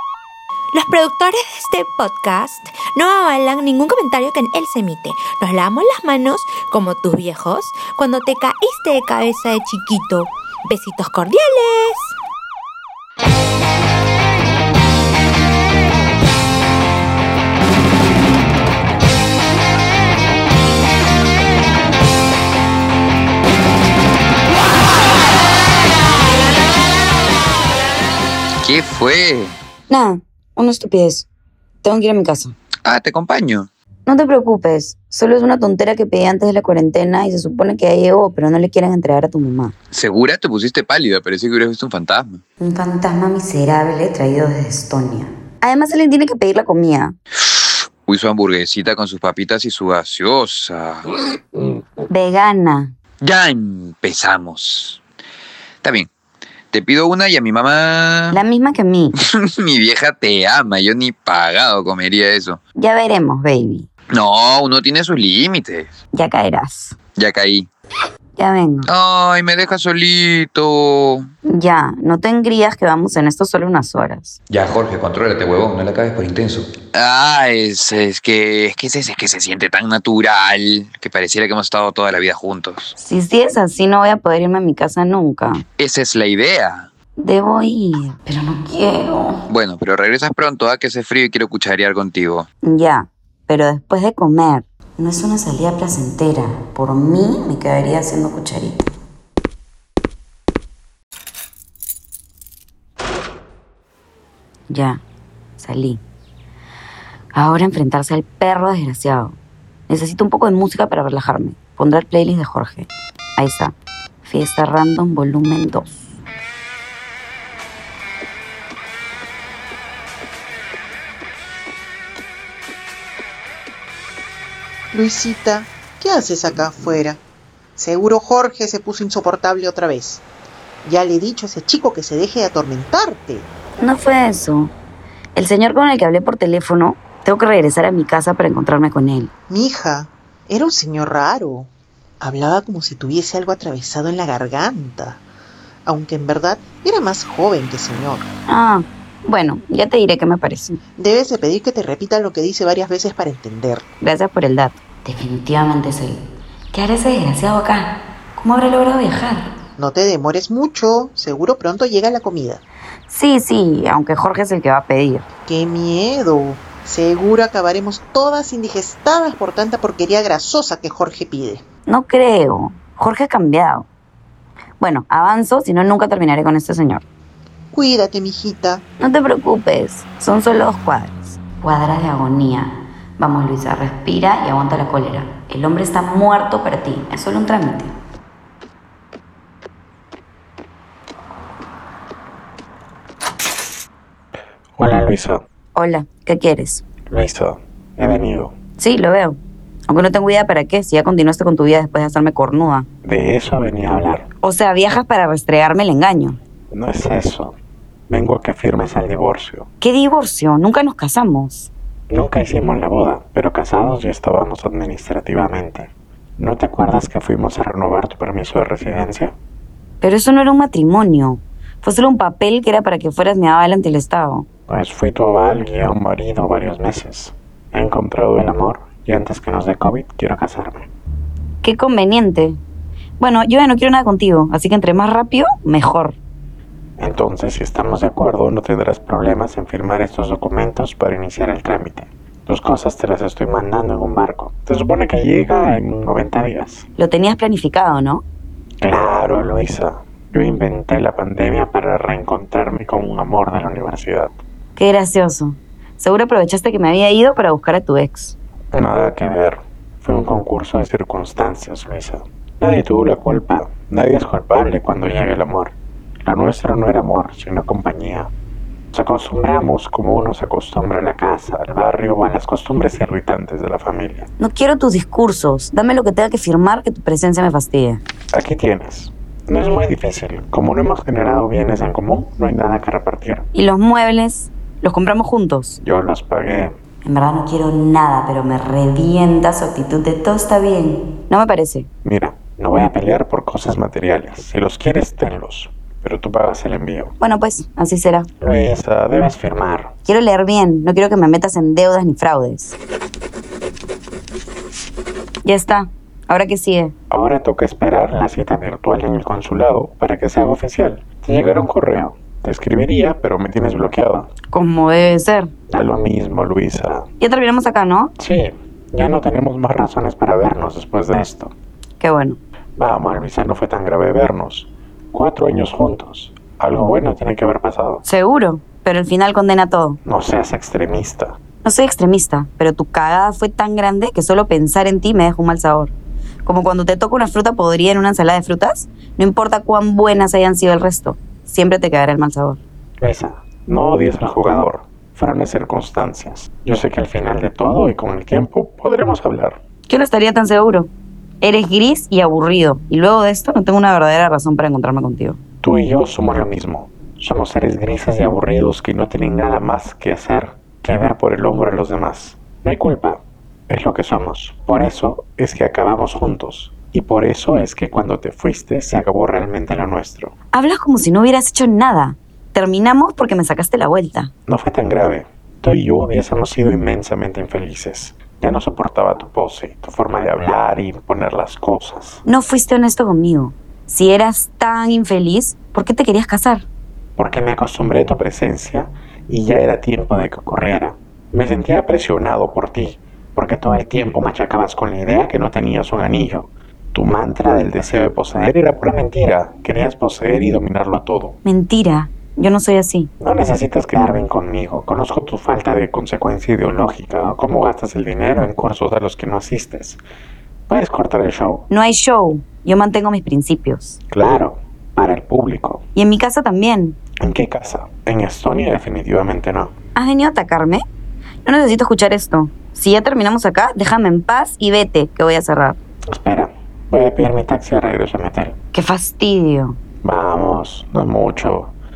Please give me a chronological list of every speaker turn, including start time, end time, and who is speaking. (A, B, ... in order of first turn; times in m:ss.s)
0:00.7-0:12.1 A
0:28.6-0:29.6 B
0:29.9-0:31.3 C
0:31.8-0:32.6 C
0:32.8-0:33.7 B
0:34.0-0:39.7 C
0:39.9-0:42.4 B
0:42.6-0:47.2 C
0:47.5-0:51.7 B
0:52.1-0:52.9 C
0:53.2-0:55.0 B
0:55.8-0:56.1 B
0:56.7-0:58.4 B
0:58.3-0:59.2 C
0:59.3-1:02.6 B
1:02.8-1:03.9 C
1:04.1-1:05.9 B
1:06.1-1:06.9 C
1:07.2-1:07.7 B
1:08.4-1:08.9 C
1:08.9-1:11.3 B
1:11.5-1:14.4 C
1:14.5-1:22.9 B
1:23.0-1:25.6 C
1:25.8-1:26.9 B
1:27.2-1:29.4 C
1:29.5-1:32.5 B
1:32.6-1:38.8 C
1:44.7-1:45.0 C
1:45.6-1:46.0 C
1:47.3-1:49.4 C
1:49.9-1:56.1 C
2:04.9-2:07.2 D
2:07.8-2:10.2 D
2:10.8-2:13.5 D
2:13.8-2:14.7 C
2:15.4-2:19.3 C
2:19.5-2:21.7 D
2:22.2-2:25.2 D
2:25.8-2:28.3 D
2:28.5-2:30.8 C
2:31.0-2:33.8 D
2:34.0-2:39.5 C
2:39.8-2:42.6 D
2:43.1-2:45.2 C
2:45.5-2:51.6 D
2:51.9-2:53.9 C
2:54.8-2:57.0 C
2:57.7-2:58.8 D
2:59.0-3:07.9 C
3:14.8-3:15.4 E
3:15.8-3:16.8 C
3:17.1-3:18.5 E
3:18.8-3:22.9 C
3:23.0-3:24.2 E
3:23.4-3:23.8 D
3:24.4-3:26.4 C
3:26.7-3:27.5 E
3:28.2-3:29.6 E
3:29.8-3:31.7 C
3:32.1-3:35.9 E
3:36.4-3:39.3 E
3:40.0-3:44.5 C
3:44.7-3:50.7 E
3:48.5-3:49.1 D
3:50.1-3:50.6 D
3:51.6-3:52.6 C
3:53.2-3:56.2 C
3:57.0-4:06.8 E
4:02.5-4:02.9 D
4:03.5-4:04.0 D
4:05.7-4:06.2 D
4:07.0-4:08.2 C
4:08.9-4:14.3 E
4:14.8-4:18.4 C
4:18.7-4:25.7 E
4:26.2-4:26.7 D
4:26.5-4:28.2 E
4:29.1-4:34.2 E
4:34.4-4:38.0 C
4:38.3-4:43.4 E
4:43.5-4:45.8 C
4:45.8-4:46.7 E
4:47.0-4:51.9 C
4:52.0-4:57.1 E
4:57.2-4:58.3 C
4:58.4-4:59.9 E
5:00.0-5:02.8 C
5:05.4-5:06.9 C
5:07.1-5:14.2 E
5:10.3-5:10.8 D
5:11.4-5:11.9 D
5:14.5-5:15.5 C
5:15.7-5:17.0 E
5:17.2-5:18.1 C
5:18.2-5:21.5 E
5:22.0-5:22.4 C
5:22.8-5:23.3 D
5:22.8-5:28.0 E
5:25.4-5:25.7 D
5:28.0-5:30.0 C
5:30.1-5:30.6 E
5:30.4-5:31.2 D
5:31.6-5:35.9 C
5:36.4-5:42.6 C
5:43.2-5:49.6 E
5:49.9-5:55.4 C
5:55.6-6:03.1 E
5:58.2-5:58.7 D
6:02.6-6:03.2 D
6:03.8-6:10.3 E
6:10.5-6:14.3 C
6:14.5-6:22.1 E
6:22.2-6:26.6 C
6:27.3-6:28.8 E
6:29.5-6:36.4 E
6:30.9-6:31.6 D
6:37.0-6:41.3 E
6:41.4-6:43.1 C
6:43.3-6:50.0 E
6:50.7-6:51.6 E
6:51.7-6:54.0 C
6:54.1-6:55.8 E
6:55.9-6:57.0 C
6:57.2-6:59.7 E
6:59.9-7:00.8 C
7:01.4-7:05.8 C
7:06.1-7:08.5 E
7:08.7-7:09.8 C
7:10.0-7:11.7 E